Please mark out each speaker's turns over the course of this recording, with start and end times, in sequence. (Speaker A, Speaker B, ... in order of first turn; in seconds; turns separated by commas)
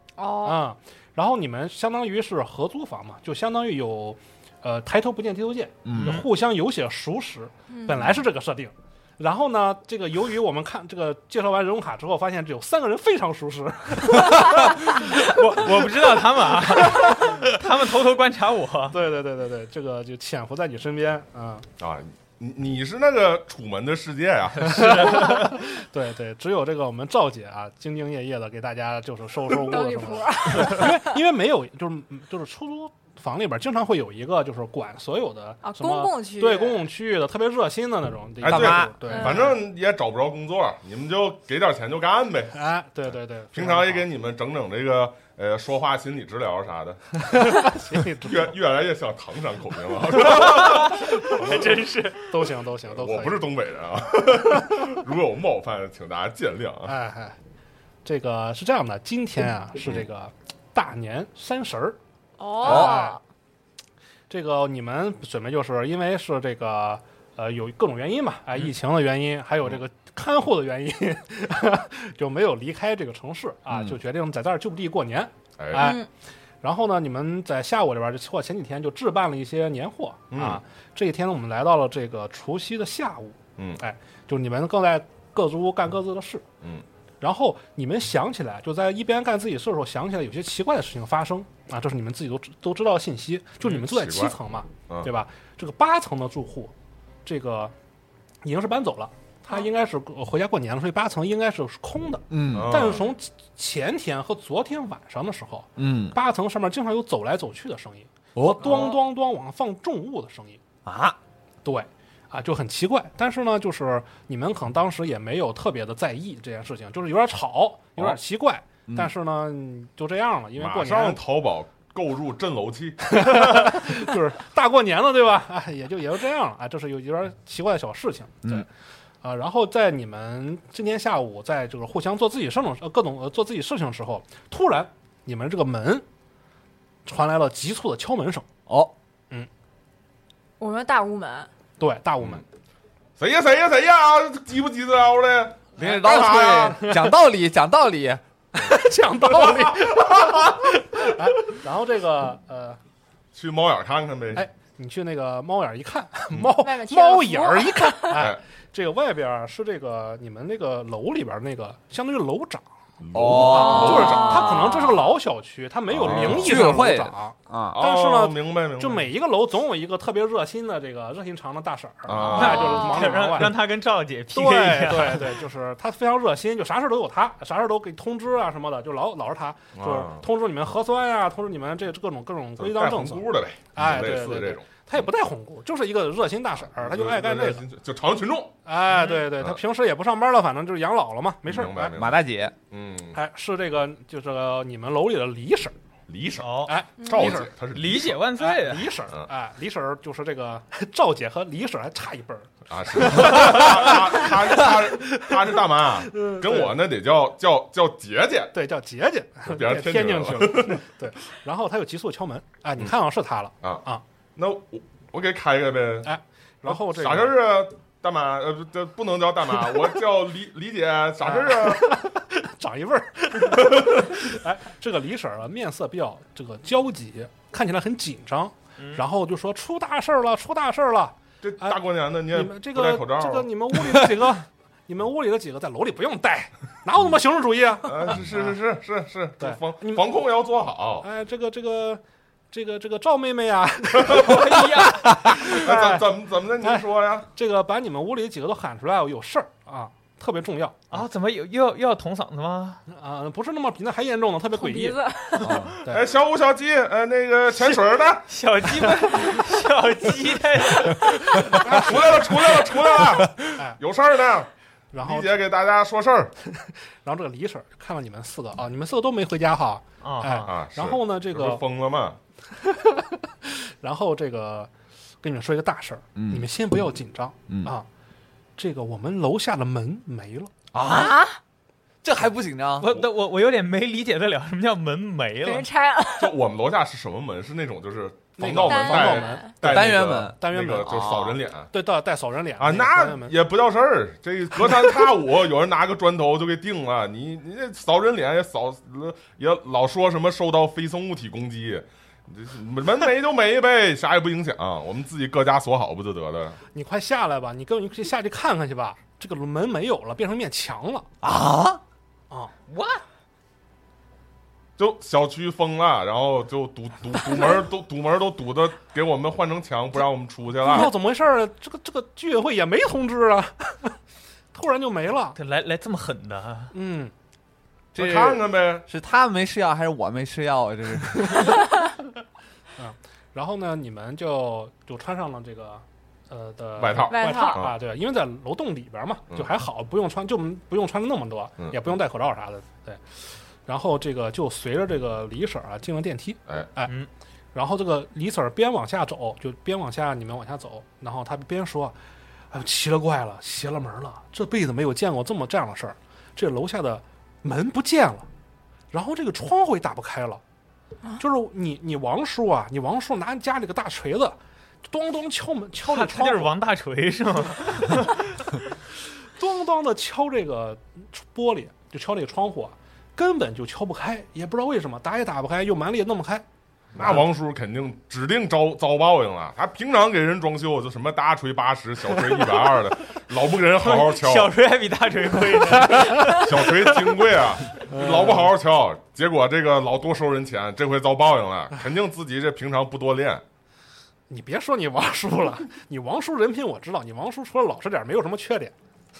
Speaker A: 0.2-0.6, Speaker B: 0.4-15.8, Speaker C: 5.8-6.2, Speaker D: 6.0-6.2, Speaker A: 7.7-8.1, Speaker D: 15.0-18.9, Speaker B: 16.7-17.2, Speaker B: 18.9-21.7, Speaker E: 21.8-25.2, Speaker B: 24.6-39.5, Speaker D: 24.7-25.4, Speaker A: 29.6-31.1, Speaker A: 35.6-36.9, Speaker E: 38.4-42.6, Speaker C: 38.5-39.0, Speaker A: 39.0-39.5, Speaker B: 42.5-44.1, Speaker E: 43.5-51.8, Speaker B: 47.3-48.5, Speaker D: 50.2-52.3, Speaker B: 51.4-53.4, Speaker E: 52.9-56.9, Speaker B: 56.9-57.4, Speaker B: 58.0-62.0, Speaker A: 62.4-63.2, Speaker B: 62.6-63.2, Speaker C: 62.6-63.0, Speaker B: 64.3-76.0, Speaker E: 75.6-75.9, Speaker A: 75.8-76.1, Speaker B: 76.6-86.5, Speaker E: 80.3-80.6, Speaker B: 87.2-96.7, Speaker E: 93.6-94.4, Speaker B: 97.2-97.7, Speaker B: 98.4-110.6, Speaker C: 102.3-102.8, Speaker E: 102.5-103.0, Speaker C: 105.8-106.1, Speaker C: 108.3-108.8, Speaker C: 110.8-111.2, Speaker B: 111.6-121.2, Speaker C: 118.9-119.1, Speaker E: 120.6-123.8, Speaker B: 123.0-128.7, Speaker B: 129.2-136.0, Speaker B: 137.0-138.5, Speaker C: 138.7-138.9, Speaker A: 140.6-141.5, Speaker B: 141.8-142.4, Speaker E: 143.2-146.9, Speaker C: 145.8-148.2, Speaker B: 145.8-147.1, Speaker B: 148.5-152.8, Speaker E: 149.3-150.6, Speaker E: 153.3-154.4, Speaker B: 154.3-162.6, Speaker A: 156.6-158.2, Speaker E: 163.0-164.6, Speaker C: 163.1-164.1, Speaker B: 163.2-173.6, Speaker A: 163.6-165.1, Speaker E: 165.9-166.8, Speaker C: 166.0-167.8, Speaker E: 167.7-169.1, Speaker E: 172.1-172.9, Speaker D: 172.2-175.4, Speaker A: 172.3-173.0, Speaker B: 174.3-187.6, Speaker E: 179.8-180.2, Speaker E: 182.6-184.7, Speaker E: 186.7-188.6, Speaker B: 188.6-192.0, Speaker D: 188.9-189.3, Speaker E: 191.5-193.2, Speaker C: 191.9-192.5, Speaker B: 193.1-195.7, Speaker E: 196.1-198.2, Speaker D: 196.4-196.7, Speaker B: 196.6-197.5, Speaker A: 197.0-197.4, Speaker D: 197.7-198.9, Speaker B: 198.4-206.8, Speaker E: 202.7-208.5, Speaker B: 208.5-214.0, Speaker E: 209.5-210.8, Speaker E: 214.3-216.1, Speaker B: 216.0-217.3, Speaker E: 216.7-221.9, Speaker B: 221.2-231.8, Speaker E: 231.4-233.5, Speaker B: 232.3-238.5, Speaker E: 237.8-241.1, Speaker B: 239.4-240.1, Speaker B: 241.0-246.1, Speaker E: 243.9-247.3, Speaker D: 244.5-244.8, Speaker B: 246.6-250.9, Speaker D: 250.9-252.8, Speaker B: 252.9-255.0, Speaker A: 254.5-255.6, Speaker C: 255.4-255.8, Speaker B: 255.8-256.0, Speaker E: 255.9-258.2, Speaker D: 258.3-261.5, Speaker B: 261.6-262.1, Speaker E: 261.6-266.3, Speaker B: 263.5-263.8, Speaker B: 264.9-265.4, Speaker B: 266.4-271.6, Speaker D: 270.0-270.5, Speaker E: 270.4-272.2, Speaker B: 272.5-274.7, Speaker B: 275.2-277.9, Speaker C: 276.1-276.5, Speaker B: 278.6-280.5, Speaker C: 280.7-281.2, Speaker A: 280.8-281.4, Speaker C: 282.0-282.9, Speaker D: 282.8-285.7, Speaker A: 285.4-286.4, Speaker E: 286.2-291.7, Speaker B: 288.4-290.9, Speaker A: 288.6-289.6, Speaker C: 289.6-291.4, Speaker B: 291.7-293.4, Speaker E: 292.6-306.6, Speaker B: 306.7-311.1, Speaker C: 311.2-311.8, Speaker D: 312.7-313.0, Speaker E: 314.8-320.9, Speaker B: 320.6-324.0, Speaker B: 324.5-325.4, Speaker D: 325.4-326.7, Speaker B: 326.7-327.1, Speaker E: 327.9-328.9, Speaker C: 327.9-331.6, Speaker B: 332.8-343.0, Speaker E: 336.8-337.7, Speaker A: 337.1-337.7, Speaker B: 343.7-346.9, Speaker B: 347.5-352.0, Speaker B: 352.5-358.3, Speaker B: 358.9-360.4, Speaker B: 361.2-366.5, Speaker D: 365.9-368.5, Speaker B: 369.4-376.4, Speaker E: 376.9-384.5, Speaker D: 383.8-387.1, Speaker E: 386.1-393.4, Speaker B: 387.9-388.5, Speaker B: 394.3-398.7